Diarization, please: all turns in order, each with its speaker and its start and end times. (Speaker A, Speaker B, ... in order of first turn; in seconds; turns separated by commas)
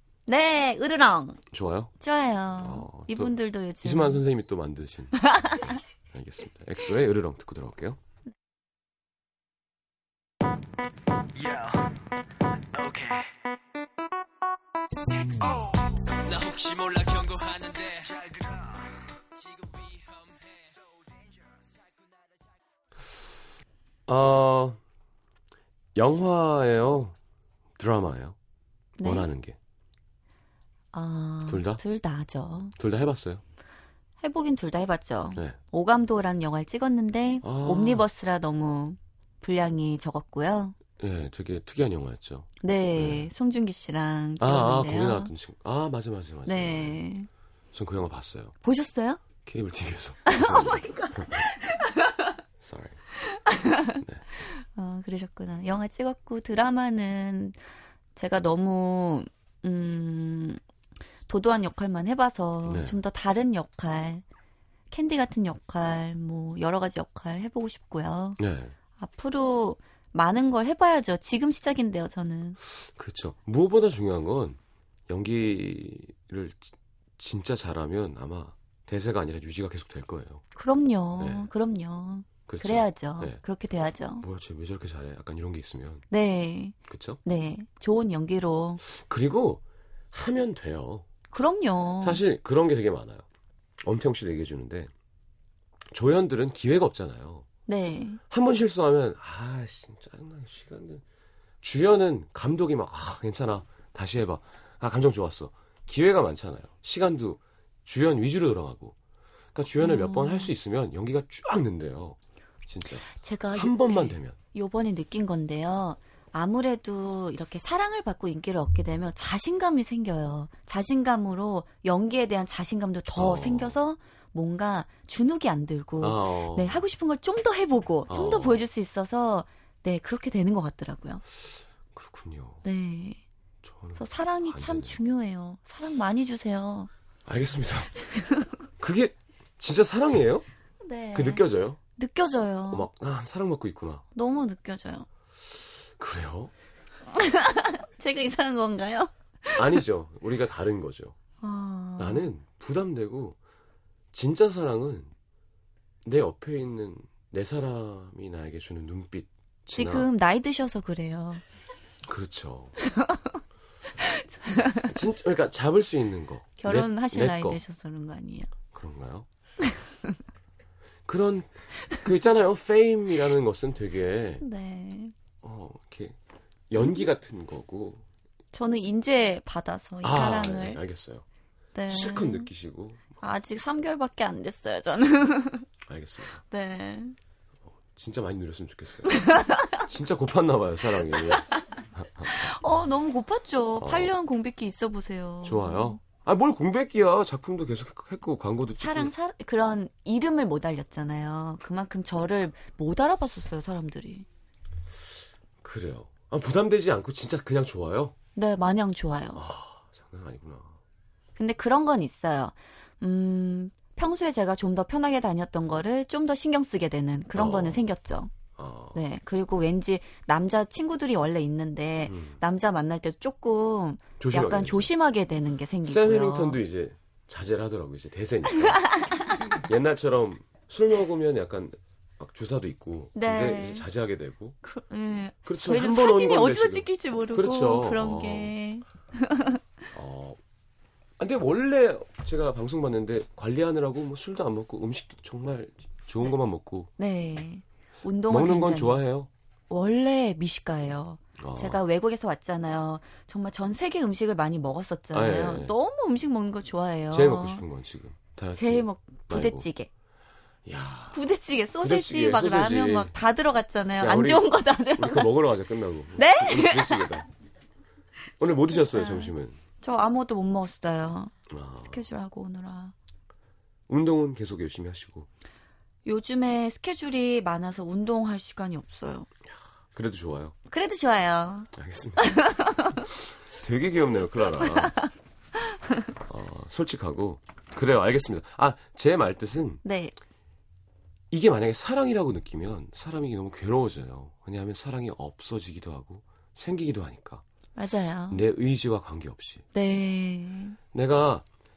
Speaker A: 0.3-1.4, Speaker B: 1.5-1.9, Speaker A: 2.0-4.2, Speaker B: 2.6-8.0, Speaker A: 5.2-5.8, Speaker C: 11.3-11.8, Speaker C: 12.7-13.2, Speaker C: 15.2-18.6, Speaker C: 19.5-20.7, Speaker B: 24.1-24.8, Speaker B: 25.9-27.1, Speaker B: 27.8-28.4, Speaker A: 29.0-29.3, Speaker B: 29.0-29.6, Speaker A: 30.9-32.7, Speaker B: 31.5-31.8, Speaker B: 32.8-33.4, Speaker A: 34.2-40.8, Speaker B: 37.4-38.0, Speaker B: 41.0-43.3, Speaker A: 42.6-45.3, Speaker B: 44.4-47.0, Speaker A: 46.5-47.3, Speaker B: 47.7-48.5, Speaker A: 48.6-49.2, Speaker B: 49.5-51.5, Speaker A: 50.2-52.3, Speaker B: 52.6-53.0, Speaker A: 53.2-57.6, Speaker A: 58.1-60.6, Speaker A: 61.3-64.2, Speaker B: 62.6-63.0, Speaker A: 64.9-68.4, Speaker B: 68.4-68.7, Speaker A: 69.0-72.6, Speaker B: 72.8-80.4, Speaker A: 80.5-84.2, Speaker B: 81.2-81.5, Speaker B: 82.5-83.4, Speaker B: 84.2-86.0, Speaker A: 86.1-88.8, Speaker B: 86.9-87.2, Speaker B: 88.8-91.0, Speaker A: 91.3-92.2, Speaker B: 92.0-93.2, Speaker B: 93.8-94.9, Speaker B: 95.9-97.5, Speaker A: 97.7-98.2, Speaker B: 98.3-101.0, Speaker B: 101.6-109.0, Speaker B: 109.5-114.4, Speaker A: 109.8-110.5, Speaker A: 113.1-131.2, Speaker B: 123.1-123.8, Speaker B: 126.0-126.8, Speaker B: 128.1-128.6, Speaker B: 131.9-132.6, Speaker A: 132.6-133.2, Speaker B: 133.6-135.0, Speaker A: 133.9-136.9, Speaker B: 137.2-137.9, Speaker A: 138.2-138.5, Speaker B: 138.8-140.4, Speaker A: 140.8-142.9, Speaker B: 141.1-141.8, Speaker B: 142.7-144.0, Speaker A: 144.1-145.1, Speaker B: 146.0-146.5, Speaker A: 147.1-149.8, Speaker B: 149.5-151.2, Speaker A: 151.4-152.3, Speaker B: 152.0-153.4, Speaker B: 154.1-155.1, Speaker B: 156.0-160.1, Speaker A: 159.7-161.4, Speaker B: 162.0-162.8, Speaker A: 162.8-163.4, Speaker A: 164.0-164.9, Speaker B: 164.8-167.6, Speaker A: 166.6-168.5, Speaker B: 168.7-169.3, Speaker A: 169.7-170.1, Speaker B: 171.1-174.4, Speaker A: 174.4-175.1, Speaker B: 175.4-176.2, Speaker B: 176.7-178.0, Speaker A: 178.5-180.8, Speaker B: 180.0-181.2, Speaker A: 181.7-182.5, Speaker B: 181.9-183.2, Speaker A: 183.2-185.7, Speaker B: 185.8-186.4, Speaker A: 186.5-187.2, Speaker B: 187.9-192.5, Speaker A: 189.1-189.8, Speaker A: 192.2-196.0, Speaker B: 193.8-194.1, Speaker B: 195.4-199.1, Speaker A: 198.8-204.2, Speaker B: 205.6-208.1, Speaker A: 208.3-209.4, Speaker B: 209.3-210.8, Speaker A: 211.4-218.3, Speaker B: 217.3-217.8, Speaker B: 218.6-219.0, Speaker A: 218.9-226.6, Speaker B: 222.1-222.4, Speaker B: 224.2-224.9, Speaker B: 225.8-234.6, Speaker A: 228.7-229.4, Speaker A: 233.1-233.8, Speaker A: 234.6-239.6, Speaker B: 235.4-238.5, Speaker B: 239.9-240.4, Speaker B: 241.2-246.9, Speaker A: 247.0-249.0, Speaker B: 248.3-249.3, Speaker A: 249.7-257.6, Speaker B: 251.4-251.8, Speaker B: 255.1-255.7, Speaker B: 257.1-259.7, Speaker A: 258.6-259.9, Speaker B: 260.6-261.2, Speaker A: 261.1-265.3, Speaker B: 261.8-263.1, Speaker B: 264.0-267.3, Speaker A: 266.1-267.2, Speaker B: 268.4-269.6, Speaker A: 268.7-272.9, Speaker B: 271.5-272.0, Speaker B: 273.9-275.3, Speaker A: 276.0-279.3, Speaker B: 279.9-280.5, Speaker A: 280.7-283.1, Speaker B: 281.7-282.4, Speaker B: 283.1-284.9, Speaker A: 284.7-285.1, Speaker B: 286.2-289.8, Speaker A: 289.8-290.1, Speaker B: 291.3-297.4, Speaker A: 297.8-298.4, Speaker B: 298.3-299.6, Speaker A: 299.7-300.8, Speaker B: 300.9-301.4